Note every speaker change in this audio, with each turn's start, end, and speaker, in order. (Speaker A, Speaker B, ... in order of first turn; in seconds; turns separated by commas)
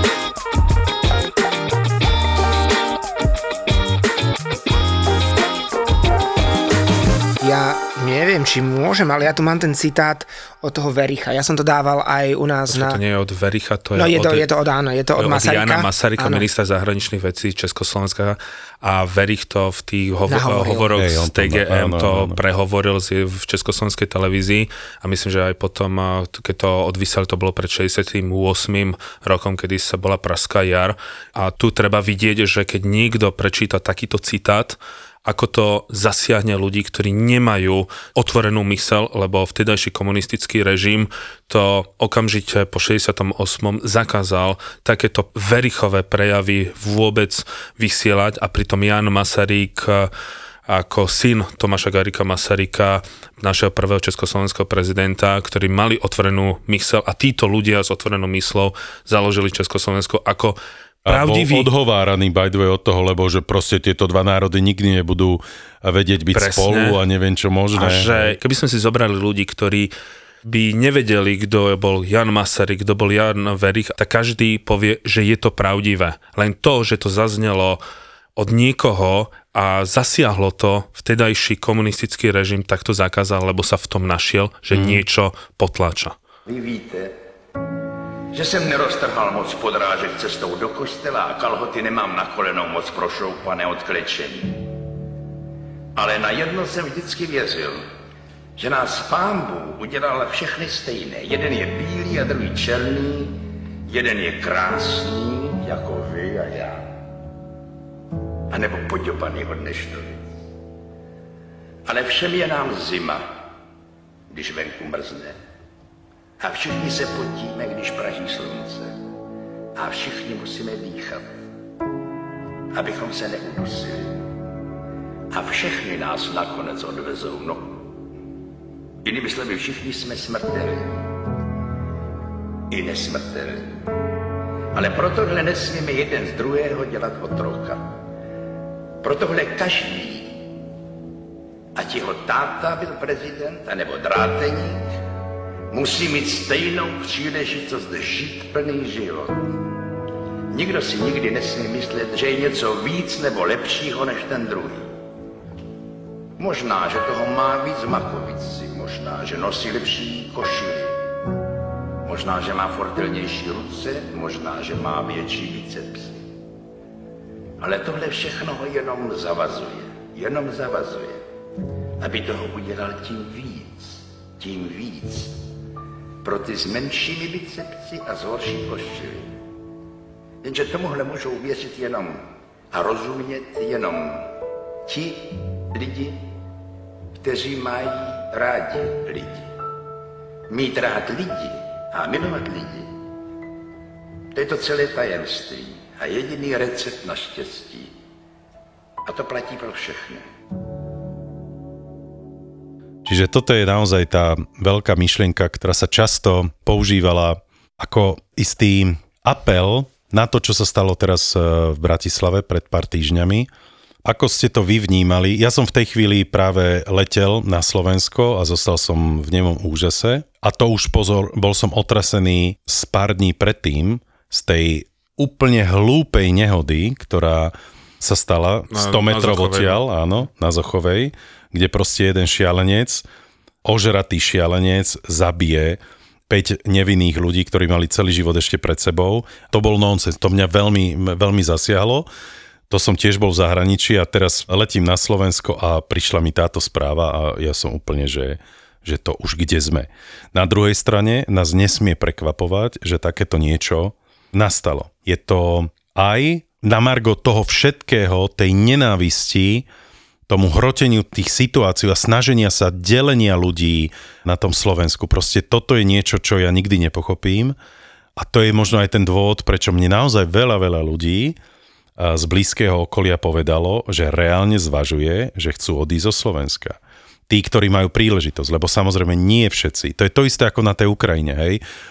Speaker A: 7.4-13.0, Speaker B: 12.7-14.5, Speaker A: 13.9-16.4, Speaker B: 15.2-50.1, Speaker A: 20.3-20.9, Speaker C: 20.9-22.4, Speaker B: 50.7-61.7, Speaker C: 61.0-68.4, Speaker B: 66.3-67.0, Speaker B: 67.8-69.9, Speaker B: 70.4-77.8, Speaker B: 78.3-86.2, Speaker C: 84.7-85.0, Speaker D: 86.5-87.1, Speaker D: 88.3-94.7, Speaker D: 96.0-97.8, Speaker D: 98.6-106.9, Speaker D: 108.5-110.2, Speaker D: 111.8-113.3, Speaker D: 114.3-115.4, Speaker D: 116.4-118.9, Speaker D: 119.8-121.3, Speaker D: 122.7-124.2, Speaker D: 125.3-127.8, Speaker D: 129.0-131.0, Speaker D: 132.7-133.8, Speaker D: 134.7-137.9, Speaker D: 139.0-140.4, Speaker D: 141.7-144.8, Speaker D: 145.7-149.5, Speaker D: 150.5-154.9, Speaker D: 156.4-161.0, Speaker D: 162.0-166.2, Speaker D: 167.6-171.2, Speaker D: 172.0-175.3, Speaker D: 176.2-179.3, Speaker D: 180.4-184.3, Speaker D: 184.8-186.2, Speaker D: 187.2-189.5, Speaker D: 190.5-192.9, Speaker D: 194.3-197.9, Speaker D: 199.1-200.2, Speaker C: 203.0-213.5, Speaker C: 214.0-233.1, Speaker B: 228.7-229.8, Speaker C: 233.6-242.1, Speaker C: 242.7-259.6, Speaker C: 260.3-267.6, Speaker C: 268.1-271.4, Speaker C: 272.0-276.8, Speaker C: 277.3-281.6